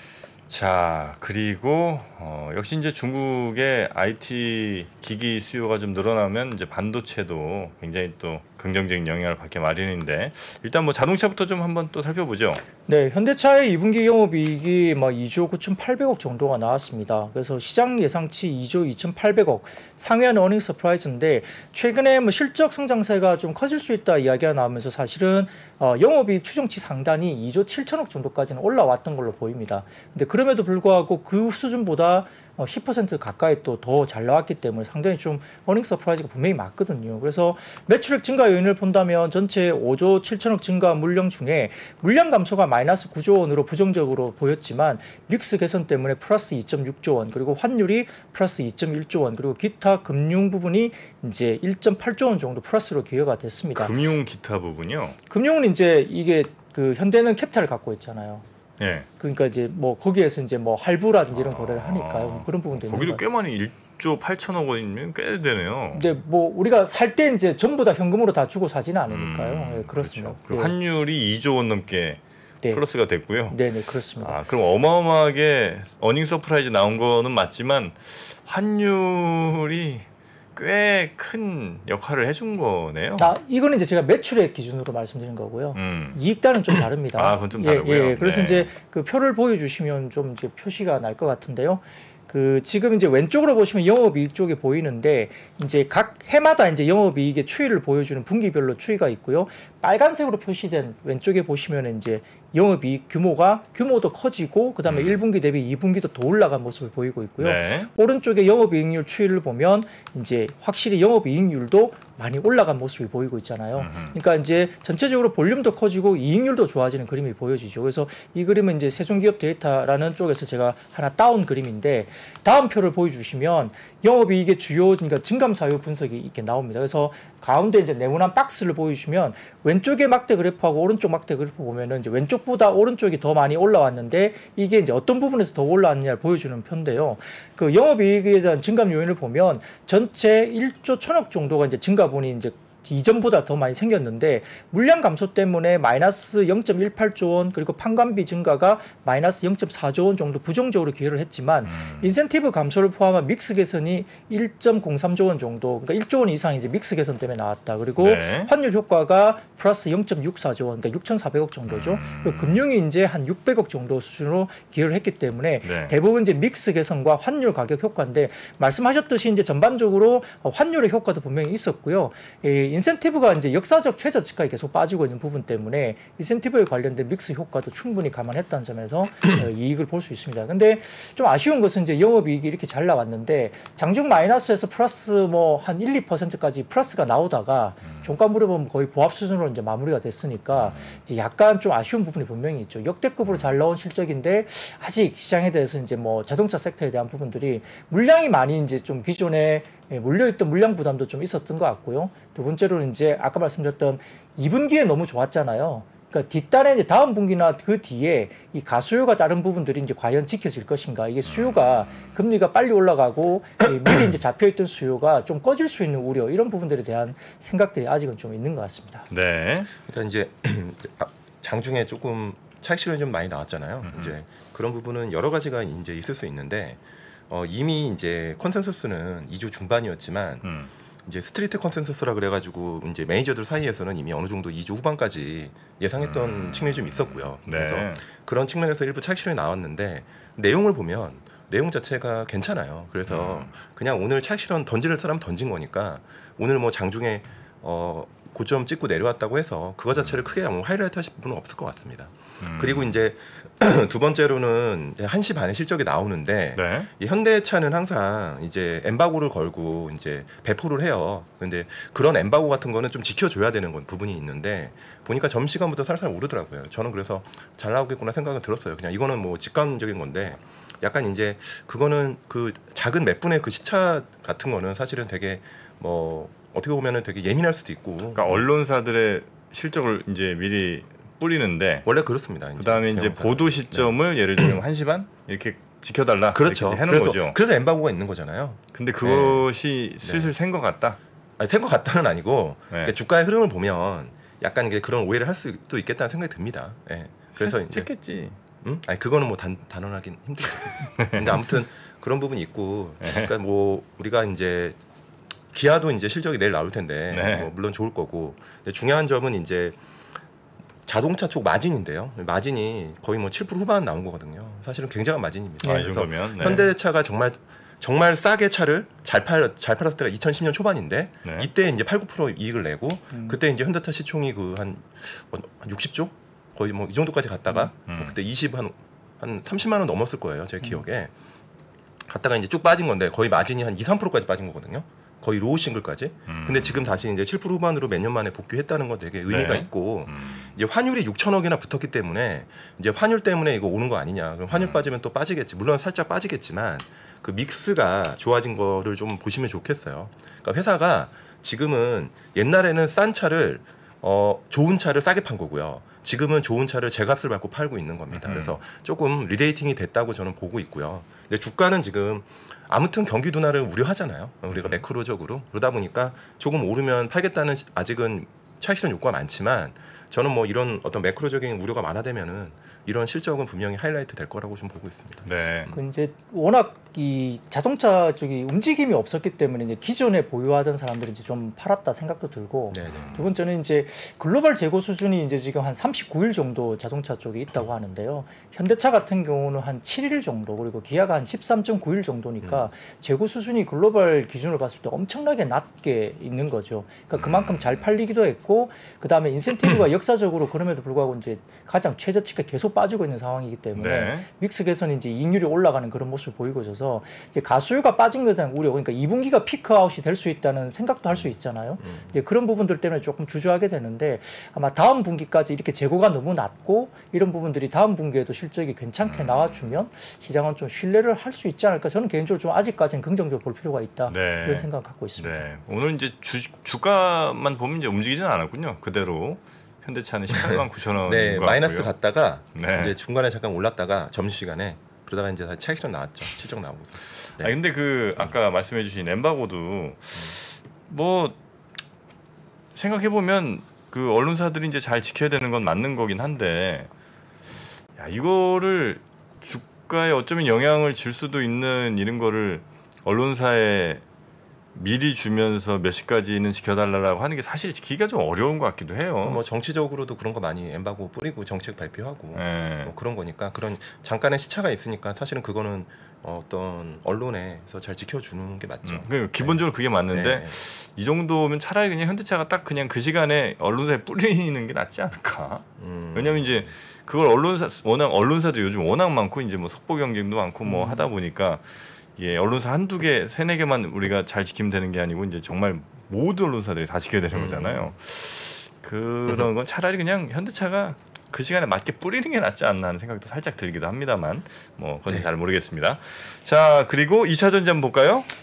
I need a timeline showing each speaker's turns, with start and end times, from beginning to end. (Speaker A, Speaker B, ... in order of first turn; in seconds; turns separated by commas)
Speaker A: 0.5-12.6, Speaker B: 12.9-53.9, Speaker A: 53.8-55.2, Speaker B: 55.3-58.5, Speaker A: 58.8-59.1, Speaker B: 59.2-63.2, Speaker A: 61.3-66.1, Speaker B: 65.9-70.8, Speaker A: 69.1-73.6, Speaker B: 73.5-74.4, Speaker A: 74.2-83.3, Speaker B: 83.2-219.1, Speaker A: 85.8-86.2, Speaker A: 87.2-88.7, Speaker A: 104.9-105.2, Speaker A: 107.4-107.9, Speaker A: 113.8-114.2, Speaker A: 151.7-152.1, Speaker A: 158.0-158.5, Speaker A: 161.7-162.6, Speaker A: 165.6-165.9, Speaker A: 187.8-188.1, Speaker A: 190.6-191.0, Speaker A: 193.3-193.5, Speaker A: 211.3-212.1, Speaker A: 219.1-219.7, Speaker C: 219.9-230.5, Speaker A: 223.8-224.2, Speaker A: 230.4-230.7, Speaker C: 231.1-278.4, Speaker A: 236.0-238.0, Speaker A: 243.1-243.5, Speaker A: 252.4-253.0, Speaker A: 256.6-256.9, Speaker A: 278.1-281.9, Speaker C: 281.9-284.6, Speaker A: 282.6-287.4, Speaker C: 286.3-289.5, Speaker A: 288.7-291.0, Speaker C: 290.0-290.3, Speaker C: 291.4-297.9, Speaker A: 297.3-298.4, Speaker C: 298.6-304.8, Speaker A: 301.0-301.4, Speaker A: 303.0-303.3, Speaker C: 305.5-309.8, Speaker A: 307.1-307.5, Speaker C: 310.9-331.1, Speaker B: 315.6-316.7, Speaker A: 315.6-316.6, Speaker B: 323.1-323.4, Speaker A: 327.9-328.2, Speaker C: 332.1-375.7, Speaker A: 336.3-337.0, Speaker A: 339.3-340.5, Speaker A: 344.5-344.9, Speaker A: 358.1-358.6, Speaker A: 364.5-364.8, Speaker A: 375.2-375.7, Speaker B: 375.7-425.4, Speaker C: 382.7-383.2, Speaker A: 382.9-383.2, Speaker C: 392.4-392.7, Speaker A: 397.2-397.9, Speaker A: 403.8-404.3, Speaker A: 419.1-419.8, Speaker A: 424.1-431.9, Speaker C: 430.3-437.5, Speaker A: 432.6-432.9, Speaker A: 437.3-441.4, Speaker A: 442.8-446.9, Speaker A: 448.0-454.0, Speaker A: 454.7-459.4, Speaker C: 459.2-470.6, Speaker A: 462.4-462.9, Speaker A: 468.9-498.3, Speaker C: 475.8-476.7, Speaker B: 480.6-481.1, Speaker C: 487.3-487.9